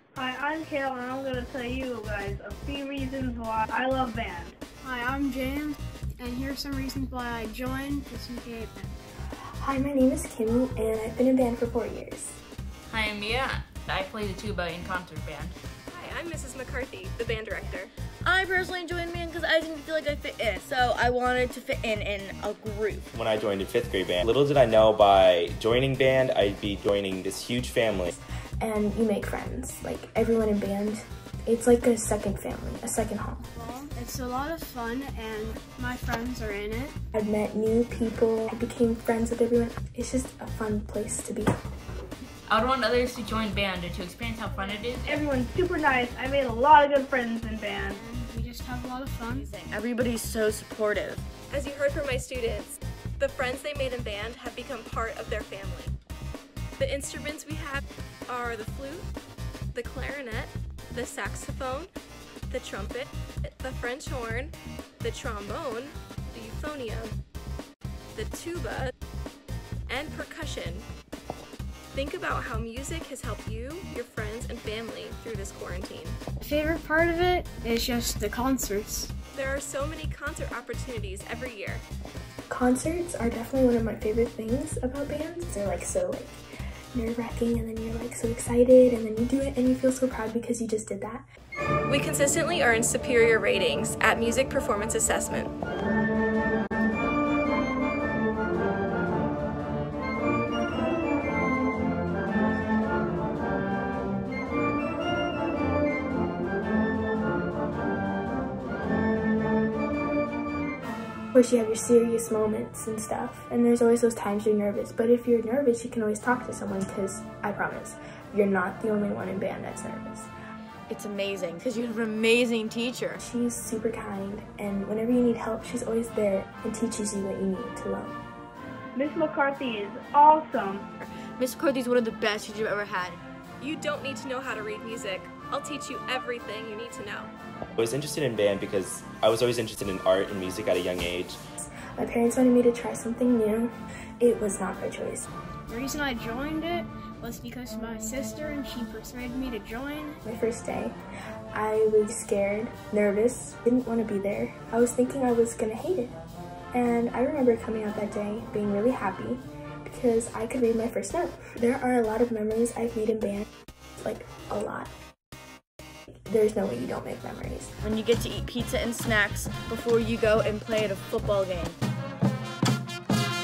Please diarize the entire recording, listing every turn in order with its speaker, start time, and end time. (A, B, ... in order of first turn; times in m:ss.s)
0:00.2-0:04.6 A
0:04.8-0:08.9 B
0:09.6-0:12.4 C
0:12.9-0:15.6 D
0:15.9-0:17.9 E
0:18.2-0:23.1 F
0:23.1-0:28.1 G
0:28.1-0:33.5 C
0:33.5-0:36.9 B
0:37.1-0:41.5 C
0:42.5-0:45.5 D
0:45.1-0:48.0 A
0:47.7-0:49.5 B
0:49.2-0:51.2 F
0:51.5-0:55.9 E
0:56.8-0:59.1 E
0:59.7-1:01.9 E
1:02.5-1:07.1 E
1:08.1-1:08.9 E
1:09.9-1:10.8 E
1:11.9-1:16.2 E
1:16.4-1:19.1 B
1:19.3-1:21.8 E
1:22.5-1:26.4 C
1:26.9-1:31.2 C
1:31.9-1:35.5 E
1:51.3-2:00.3 C
2:00.9-2:03.2 F
2:03.2-2:08.2 C
2:09.0-2:10.8 A
2:11.0-2:13.2 F
2:13.6-2:17.3 E
2:17.8-2:21.4 G
2:21.8-2:25.3 C
2:25.7-2:30.2 B
2:30.2-2:31.0 C
2:31.5-2:36.2 C
2:36.7-2:43.4 C
2:44.0-2:44.9 C
2:46.2-2:47.7 C
2:47.8-2:51.8 F